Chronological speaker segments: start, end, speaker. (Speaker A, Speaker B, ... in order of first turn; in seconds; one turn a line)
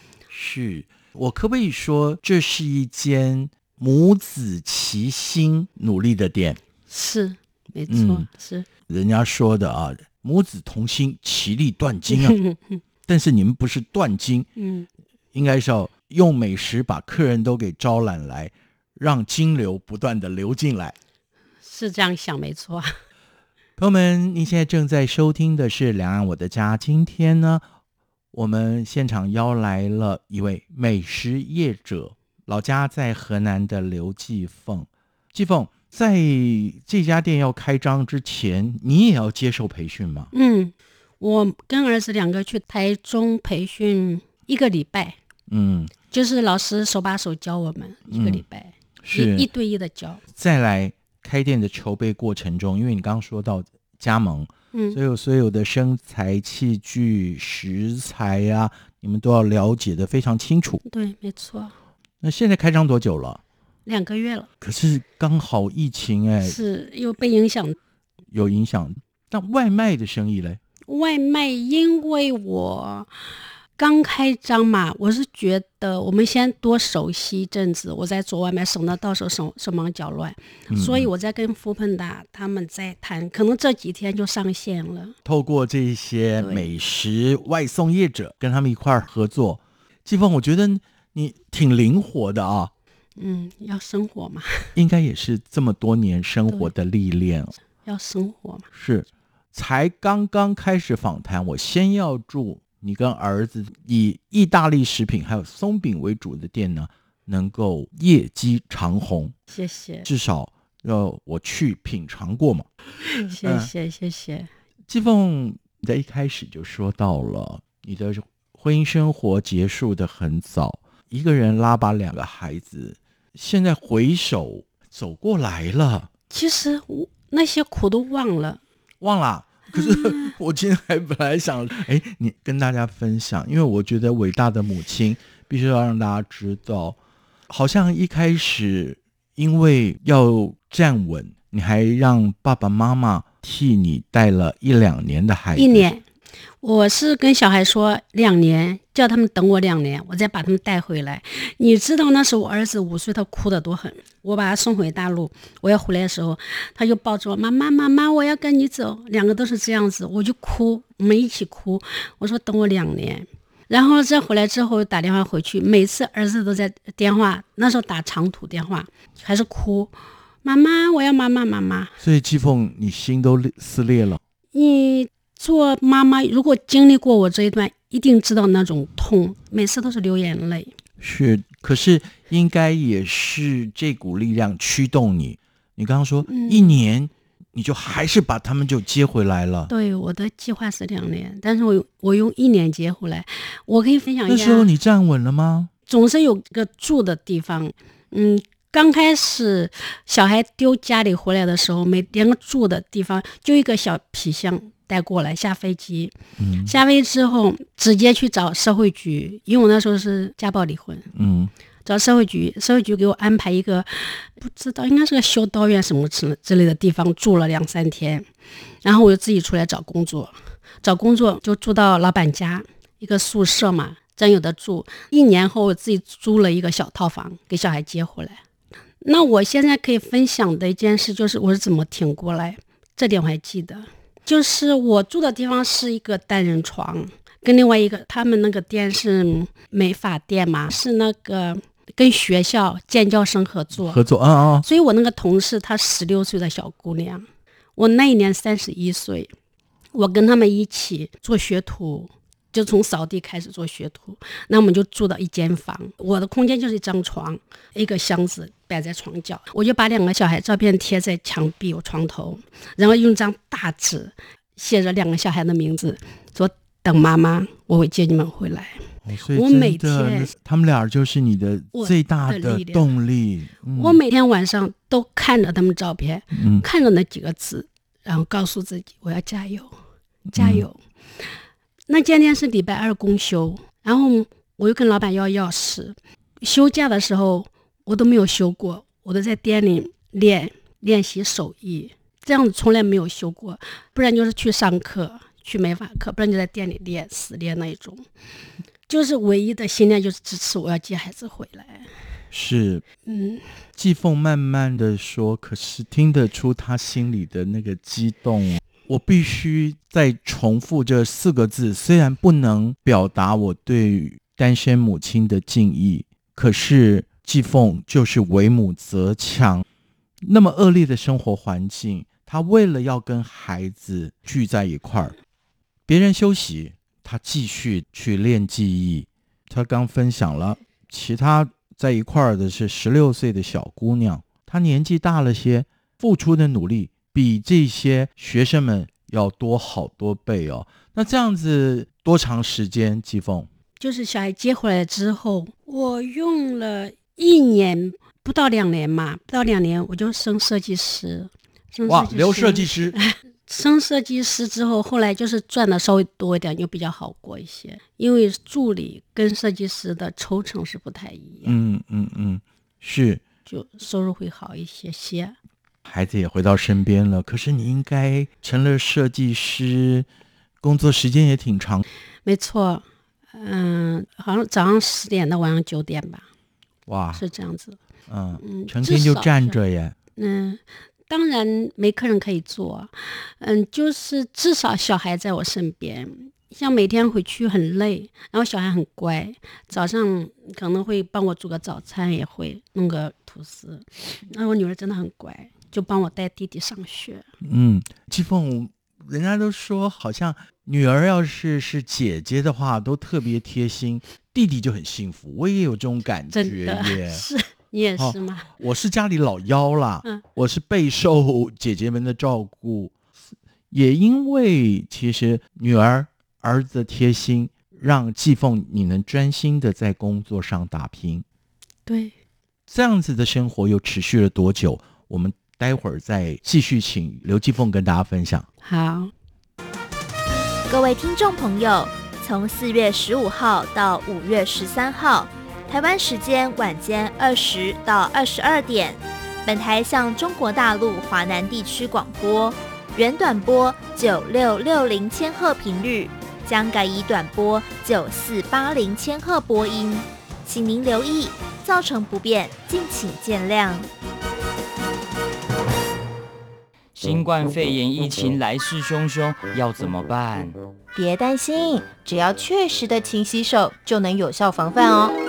Speaker A: 0.3-6.6
Speaker B: 6.9-8.7
Speaker A: 7.9-8.3
Speaker A: 8.9-12.4
Speaker B: 12.1-12.8
Speaker A: 13.1-14.5
Speaker B: 14.6-14.9
Speaker A: 15.3-21.0
Speaker B: 21.6-22.9
Speaker A: 23.8-27.6
Speaker A: 28.3-40.3
Speaker B: 40.3-45.2
Speaker A: 45.5-45.9
Speaker B: 46.1-50.2
Speaker A: 48.1-48.4
Speaker A: 49.0-49.5
Speaker A: 50.4-60.8
Speaker B: 54.7-55.0
Speaker B: 60.9-61.7
Speaker A: 62.2-63.4
Speaker B: 63.9-64.5
Speaker A: 64.6-66.6
Speaker B: 66.4-67.8
Speaker A: 68.3-70.6
Speaker B: 70.9-73.1
Speaker B: 73.8-85.2
Speaker A: 80.7-81.1
Speaker A: 85.2-92.7
Speaker B: 86.4-86.7
Speaker B: 93.2-94.7
Speaker A: 94.8-97.5
Speaker B: 97.8-98.7
Speaker A: 98.7-109.3
Speaker B: 109.5-110.1
Speaker A: 110.0-112.7
Speaker B: 113.0-114.5
Speaker A: 113.3-113.7
Speaker A: 114.9-126.1
Speaker B: 126.3-128.6
Speaker A: 129.0-137.0
Speaker B: 129.7-130.3
Speaker A: 137.5-145.9
Speaker B: 145.6-146.0
Speaker B: 146.6-171.9
Speaker A: 172.0-174.2
Speaker B: 174.5-180.7
Speaker A: 181.0-189.7
Speaker B: 186.3-186.8
Speaker B: 189.7-194.7
Speaker A: 194.3-195.7
Speaker B: 195.9-206.1
Speaker A: 206.4-206.7
Speaker B: 206.7-211.1
Speaker A: 211.1-211.5
Speaker B: 211.8-218.3
Speaker B: 218.8-228.4
Speaker B: 229.0-244.0
Speaker A: 243.8-244.7
Speaker B: 244.6-247.3
Speaker B: 247.8-249.3
Speaker B: 249.9-270.3
Speaker A: 269.0-274.0
Speaker B: 271.7-272.9
Speaker B: 273.8-279.7
Speaker A: 276.3-276.6
Speaker A: 280.3-280.6
Speaker B: 280.3-281.3
Speaker B: 281.9-298.1
Speaker B: 298.9-301.9
Speaker A: 302.3-302.8
Speaker B: 303.1-303.5
Speaker A: 303.8-319.6
Speaker A: 320.2-325.2
Speaker A: 325.9-343.5
Speaker B: 343.8-361.6
Speaker A: 351.9-353.0
Speaker A: 361.4-363.2
Speaker B: 363.5-365.4
Speaker A: 365.9-370.1
Speaker A: 370.6-371.9
Speaker B: 372.2-376.3
Speaker A: 376.9-377.2
Speaker B: 377.1-377.8
Speaker A: 378.1-380.0
Speaker B: 378.4-379.6
Speaker B: 380.2-397.3
Speaker A: 397.4-407.2
Speaker B: 406.3-408.5
Speaker A: 408.0-412.9
Speaker A: 413.7-421.2
Speaker B: 421.9-422.1
Speaker A: 422.7-428.5
Speaker B: 428.6-429.1
Speaker C: 430.7-453.9
Speaker D: 456.9-460.6
Speaker E: 460.9-465.1